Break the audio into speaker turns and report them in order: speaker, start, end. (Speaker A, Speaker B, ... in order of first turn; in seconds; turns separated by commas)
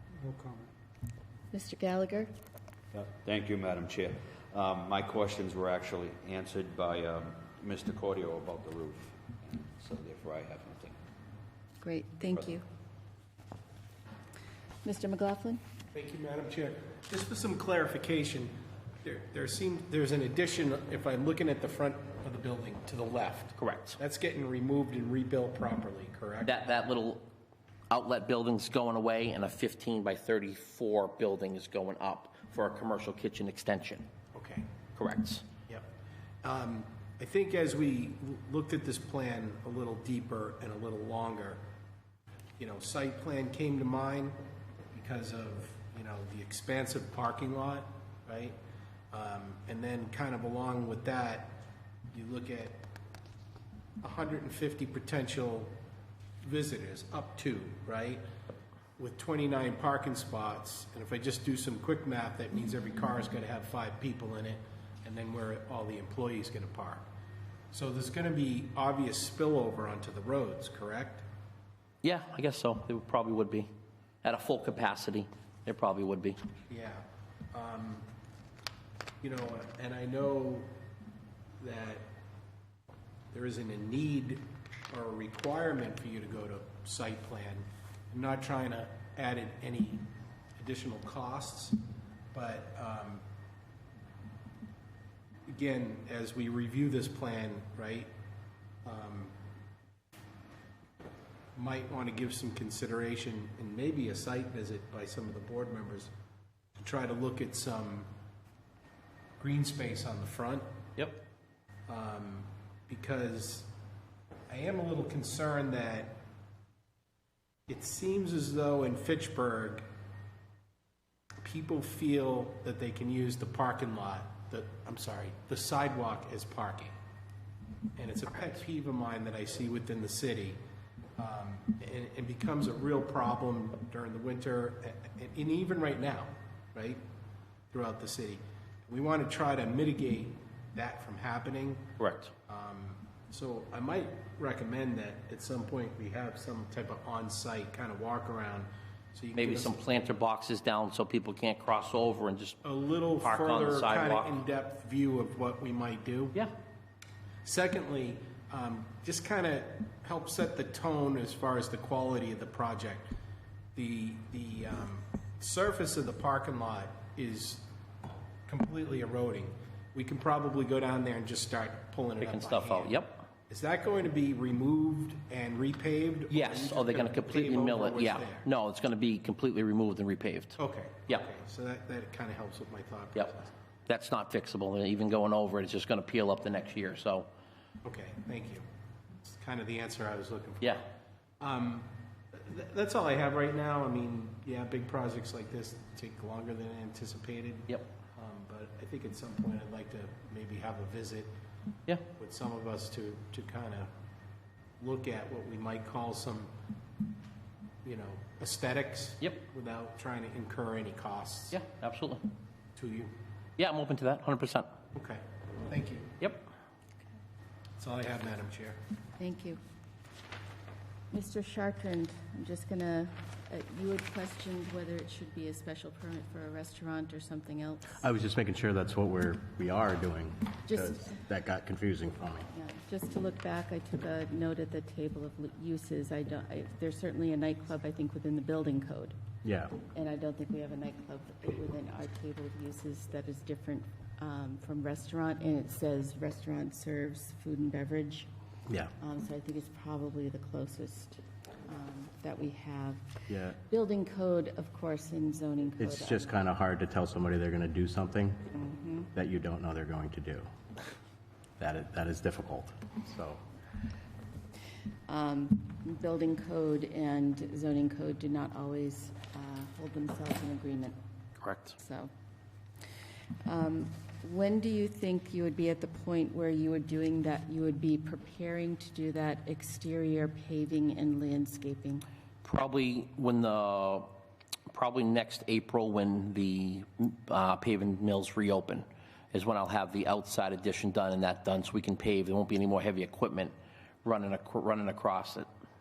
Speaker A: 0.2-0.7, Speaker B: 1.5-2.3, Speaker A: 2.9-11.0, Speaker B: 11.8-12.6, Speaker B: 14.8-15.6, Speaker C: 15.9-18.5, Speaker C: 19.0-26.6, Speaker D: 23.6-24.0, Speaker D: 26.4-27.3, Speaker D: 27.9-34.1, Speaker C: 34.3-34.7, Speaker D: 35.0-35.5, Speaker C: 36.4-41.6, Speaker C: 42.6-44.4, Speaker C: 44.9-48.5, Speaker C: 49.1-52.8, Speaker C: 54.0-55.7, Speaker C: 56.4-58.2, Speaker C: 59.0-67.0, Speaker C: 67.7-71.2, Speaker D: 72.0-73.7, Speaker D: 74.2-76.4, Speaker C: 76.7-78.0, Speaker C: 79.2-80.7, Speaker C: 81.6-82.0, Speaker C: 83.3-90.0, Speaker C: 90.6-91.8, Speaker C: 92.3-93.2, Speaker C: 95.5-98.1, Speaker C: 98.8-99.3, Speaker C: 101.5-106.1, Speaker C: 106.8-108.1, Speaker C: 109.4-110.7, Speaker C: 111.9-113.7, Speaker C: 114.5-116.2, Speaker C: 117.7-119.8, Speaker C: 121.4-126.9, Speaker C: 128.0-130.6, Speaker C: 131.2-137.0, Speaker C: 137.7-141.9, Speaker D: 142.0-142.3, Speaker C: 142.5-149.8, Speaker D: 149.3-152.6, Speaker C: 152.6-156.4, Speaker D: 153.2-154.4, Speaker C: 157.4-163.1, Speaker C: 163.8-167.6, Speaker C: 168.5-178.5, Speaker D: 172.2-173.2, Speaker D: 176.3-181.3, Speaker C: 180.6-183.5, Speaker D: 183.1-187.3, Speaker C: 187.8-188.6, Speaker C: 189.2-190.8, Speaker C: 191.4-201.3, Speaker C: 202.2-203.9, Speaker C: 204.8-206.5, Speaker C: 207.8-211.6, Speaker D: 211.5-212.2, Speaker C: 212.8-213.1, Speaker D: 213.6-214.7, Speaker C: 214.9-216.2, Speaker D: 216.2-216.4, Speaker C: 217.8-218.8, Speaker B: 219.2-219.6, Speaker B: 221.1-228.0, Speaker E: 228.0-232.5, Speaker B: 230.7-231.1, Speaker B: 232.5-239.2, Speaker E: 239.4-239.7, Speaker B: 239.9-248.3, Speaker B: 249.0-256.4, Speaker E: 253.3-253.6, Speaker E: 255.8-258.5, Speaker B: 258.5-259.1, Speaker E: 259.1-260.5, Speaker E: 261.6-263.4, Speaker B: 265.1-271.0, Speaker D: 271.4-271.7, Speaker B: 271.8-272.1, Speaker B: 273.4-282.0, Speaker D: 282.4-284.1, Speaker D: 284.7-295.5